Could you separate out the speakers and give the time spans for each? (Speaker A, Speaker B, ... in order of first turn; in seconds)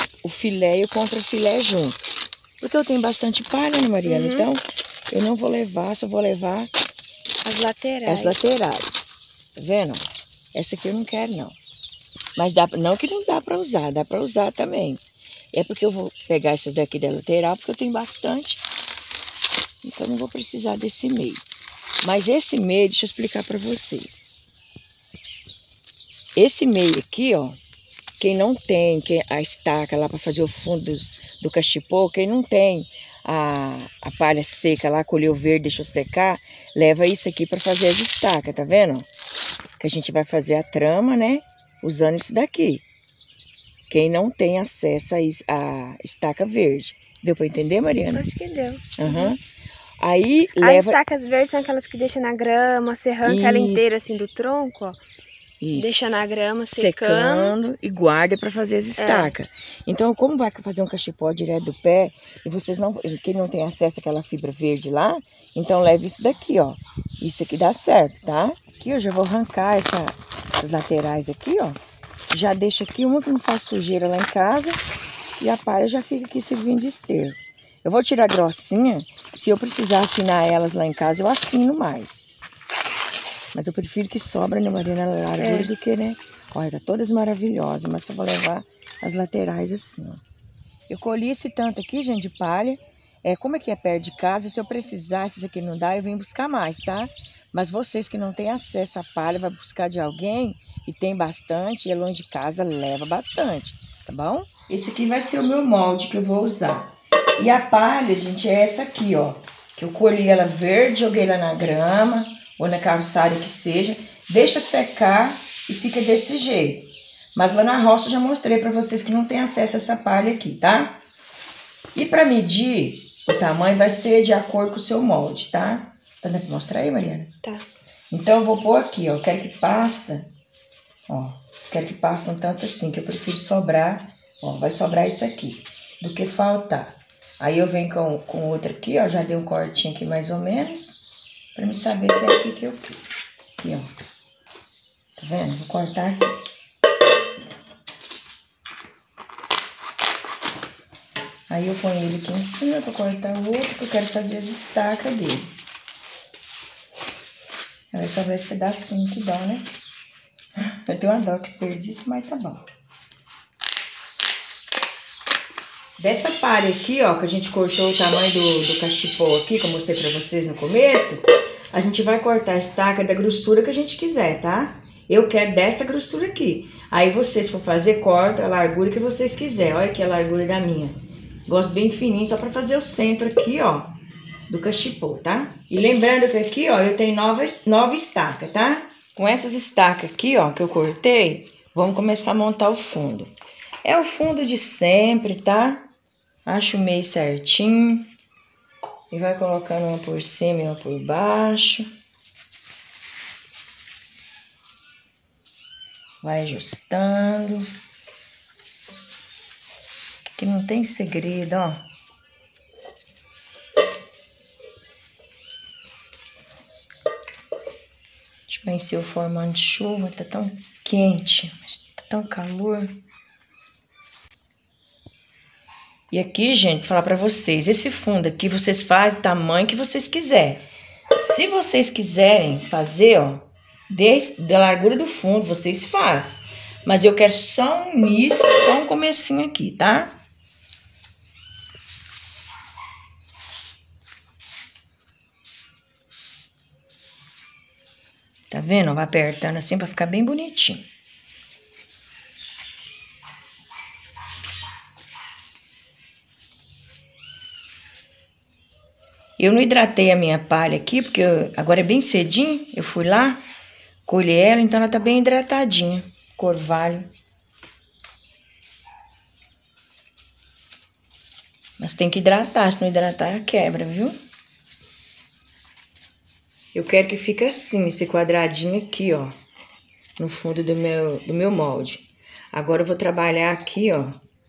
Speaker A: 0.2-2.0, 2.6-6.7, 8.1-11.6, 12.3-15.0, 15.5-18.6, 19.8-21.4, 22.0-24.2, 26.4-27.6, 28.2-39.1, 39.8-42.8, 43.9-48.3, 49.0-49.4, 50.0-51.0, 53.2-54.0, 55.6-56.0, 56.7-71.8, 72.3-74.8, 75.4-82.2, 83.5-90.2, 90.9-121.0, 121.9-127.3, 128.1-130.3, 131.1-141.0, 141.5-143.0, 143.6-143.9, 145.2-146.4, 151.5-155.5, 157.9-159.7, 160.8-162.7, 166.0-183.9, 184.5-193.3, 193.8-195.9, 196.4-198.1, 199.1-201.9, 206.2-207.7, 210.4-211.8, 218.5-222.9, 226.1-230.6, 231.2-240.1, 248.5-250.9, 259.4-263.4, 264.1-267.1, 271.8-274.1, 276.7-279.3, 280.2-284.2
Speaker B: 4.0-4.5, 7.4-8.4, 48.1-49.3, 50.6-55.0, 55.7-57.5, 59.0-59.3, 85.4-85.7